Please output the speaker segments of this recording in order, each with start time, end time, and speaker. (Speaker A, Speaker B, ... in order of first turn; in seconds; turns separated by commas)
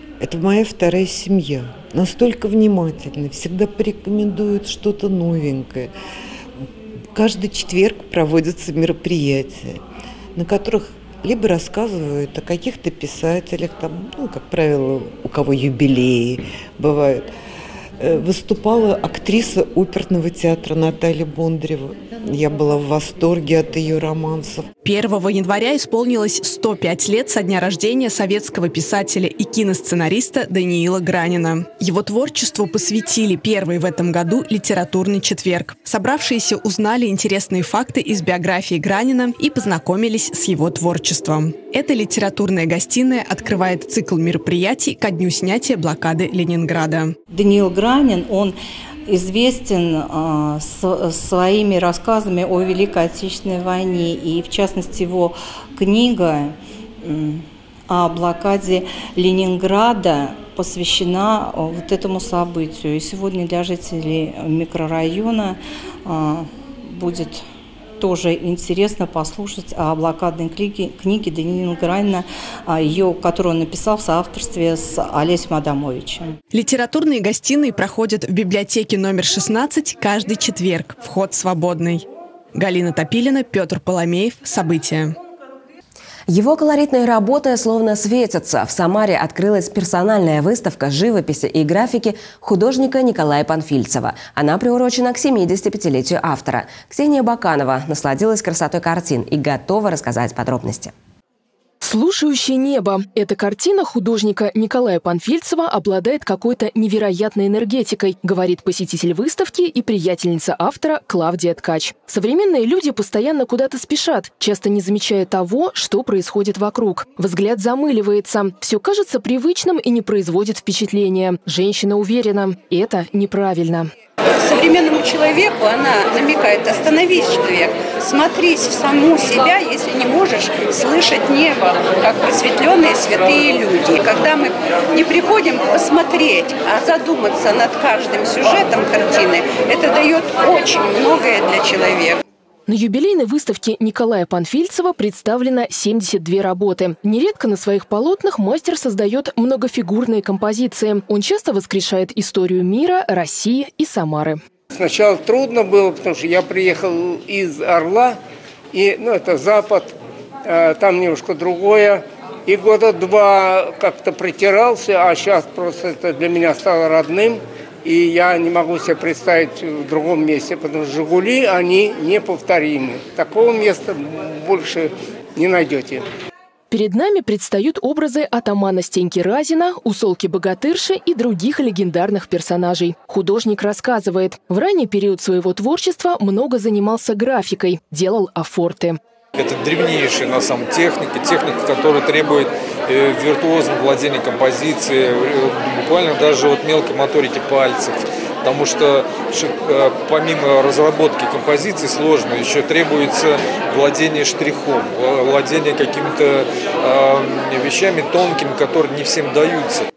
Speaker A: 0.2-5.9, Speaker A: 7.1-9.8, Speaker A: 10.3-17.3, Speaker A: 18.0-24.7, Speaker B: 24.8-47.1, Speaker C: 47.3-67.4, Speaker C: 68.0-76.4, Speaker B: 76.5-85.2, Speaker D: 86.3-100.9, Speaker E: 101.8-123.9, Speaker F: 124.4-142.2, Speaker E: 142.7-154.4, Speaker G: 154.8-158.2, Speaker G: 158.7-159.9, Speaker G: 160.5-176.0, Speaker E: 176.7-189.0, Speaker H: 189.3-209.9